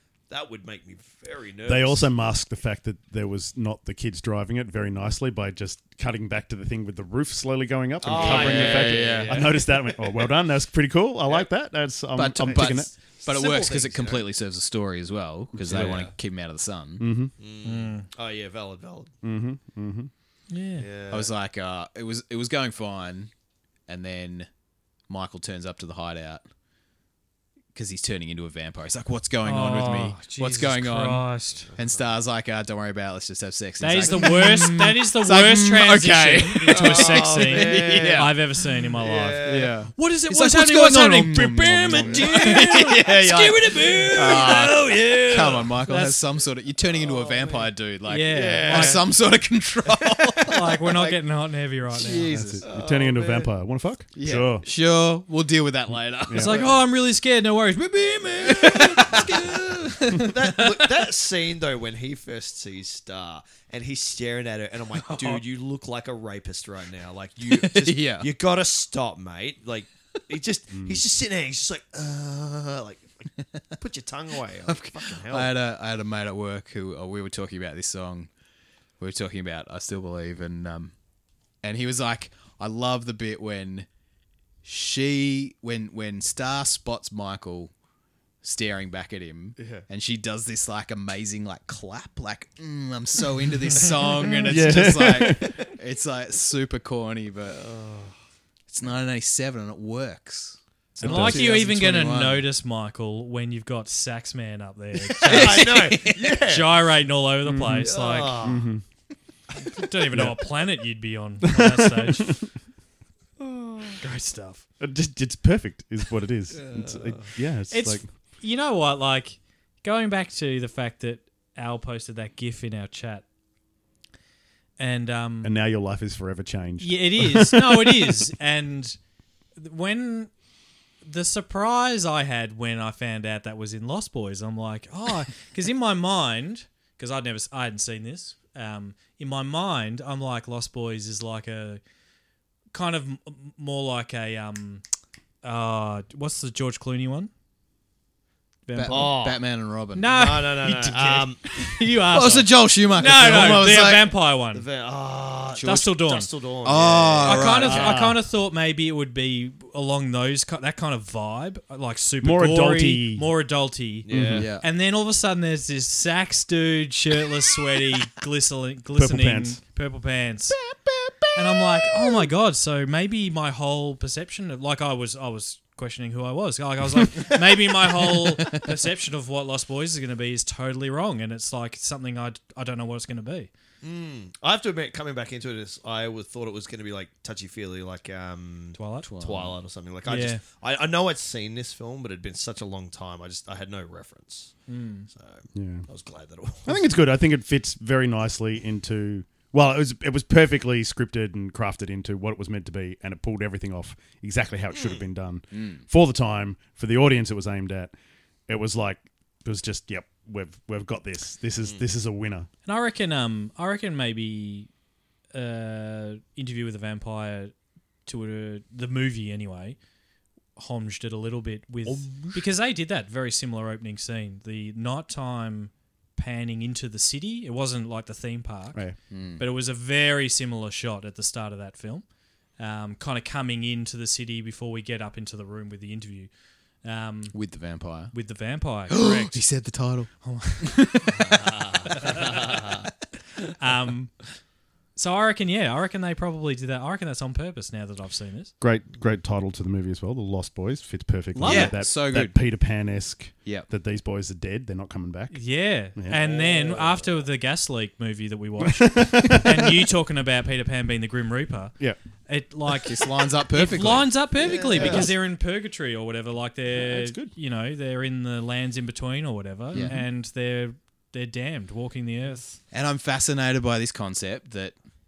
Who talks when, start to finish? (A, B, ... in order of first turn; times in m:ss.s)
0:00.3-0:02.1 A
0:01.6-0:12.9 B
0:08.0-0:10.3 A
0:08.1-0:09.6 C
0:12.2-0:17.1 C
0:13.2-0:14.2 A
0:15.5-0:16.1 B
0:15.7-0:16.2 A
0:17.0-0:17.3 B
0:17.4-0:19.1 A
0:17.6-0:18.1 D
0:19.2-0:20.1 B
0:20.5-0:20.9 D
0:20.8-0:21.3 A
0:21.1-0:23.3 C
0:23.9-0:24.5 C
0:25.1-0:26.4 C
0:27.8-0:38.4 C
0:29.4-0:31.7 D
0:31.7-0:32.0 A
0:33.8-0:46.2 D
0:36.7-0:38.3 A
0:39.0-0:39.8 A
0:39.4-0:51.2 C
0:41.9-0:42.3 A
0:44.0-0:45.0 A
0:46.9-0:47.7 A
0:48.1-0:49.0 D
0:48.3-0:49.0 A
0:49.9-0:50.6 A
0:50.5-0:52.3 D
0:51.9-0:52.6 C
0:52.3-0:54.7 B
0:52.6-0:53.5 A
0:54.2-0:56.8 C
0:56.3-0:56.6 B
0:56.3-1:00.4 D
0:58.0-1:00.4 C
0:58.4-0:59.6 A
1:00.1-1:15.5 A
1:05.0-1:05.4 C
1:07.4-1:08.3 C
1:10.7-1:11.0 B
1:14.6-1:18.3 C
1:19.0-1:20.9 C
1:21.6-1:23.9 C
1:24.6-1:27.7 C
1:28.4-1:37.6 C
1:29.6-1:29.9 A
1:34.2-1:34.6 D
1:34.5-1:35.6 B
1:37.5-1:38.1 A
1:38.7-1:42.5 C
1:41.0-1:41.5 B
1:41.0-1:48.4 D
1:45.2-1:46.4 C
1:45.2-1:46.8 A
1:47.4-1:48.8 B
1:47.8-1:48.7 A
1:49.7-1:52.4 D
1:50.1-1:50.4 B
1:51.4-1:52.5 B
1:53.4-1:54.0 A
1:54.0-1:54.6 D
1:54.8-1:58.1 B
1:56.5-1:57.3 A
1:57.7-2:03.2 D
2:04.8-2:05.6 D
2:05.4-2:08.2 B
2:06.8-2:09.0 D
2:09.6-2:10.3 D
2:11.0-2:21.8 D
2:22.7-2:24.8 D
2:25.4-2:27.3 D
2:28.7-2:29.2 D
2:28.7-2:30.4 C
2:28.9-2:29.4 A
2:30.0-2:34.6 D
2:30.1-2:31.4 A
2:32.0-2:34.1 C
2:34.5-2:37.9 A
2:35.6-2:36.3 D
2:36.6-2:37.9 C
2:37.2-2:50.6 D
2:37.6-2:38.2 B
2:42.2-2:43.3 B
2:44.0-2:44.5 A
2:44.1-2:44.5 B
2:44.3-2:44.7 C
2:49.0-2:49.6 B
2:51.3-3:03.5 D
3:03.8-3:16.8 A
3:08.8-3:09.1 D
3:09.0-3:09.6 C
3:10.1-3:10.4 D
3:14.7-3:15.1 D
3:15.5-3:15.9 B
3:16.6-3:27.9 B
3:24.7-3:25.0 A
3:25.5-3:25.8 C
3:28.5-3:32.5 B
3:32.7-3:34.7 D
3:35.3-3:37.5 D
3:38.1-3:39.8 D
3:40.6-3:48.8 D
3:41.8-3:42.4 B
3:49.1-3:49.4 C
3:49.4-3:52.0 D
3:52.6-3:56.3 D
3:56.8-3:57.4 D
3:57.3-3:58.2 C
3:58.1-3:59.4 D
3:58.9-4:02.3 C
4:00.2-4:01.0 D
4:01.2-4:02.9 A
4:03.6-4:04.1 D
4:05.0-4:08.5 D
4:08.6-4:15.4 B
4:11.3-4:11.8 D
4:11.4-4:12.4 C
4:15.3-4:21.8 D
4:16.0-4:16.2 B
4:16.1-4:17.2 A
4:18.6-4:19.9 B
4:22.3-4:32.6 D
4:22.8-4:24.2 C
4:24.4-4:25.1 A
4:24.7-4:25.1 B
4:24.8-4:25.1 C
4:26.7-4:27.3 B
4:29.7-4:30.0 C
4:29.7-4:30.1 B
4:32.7-4:34.8 C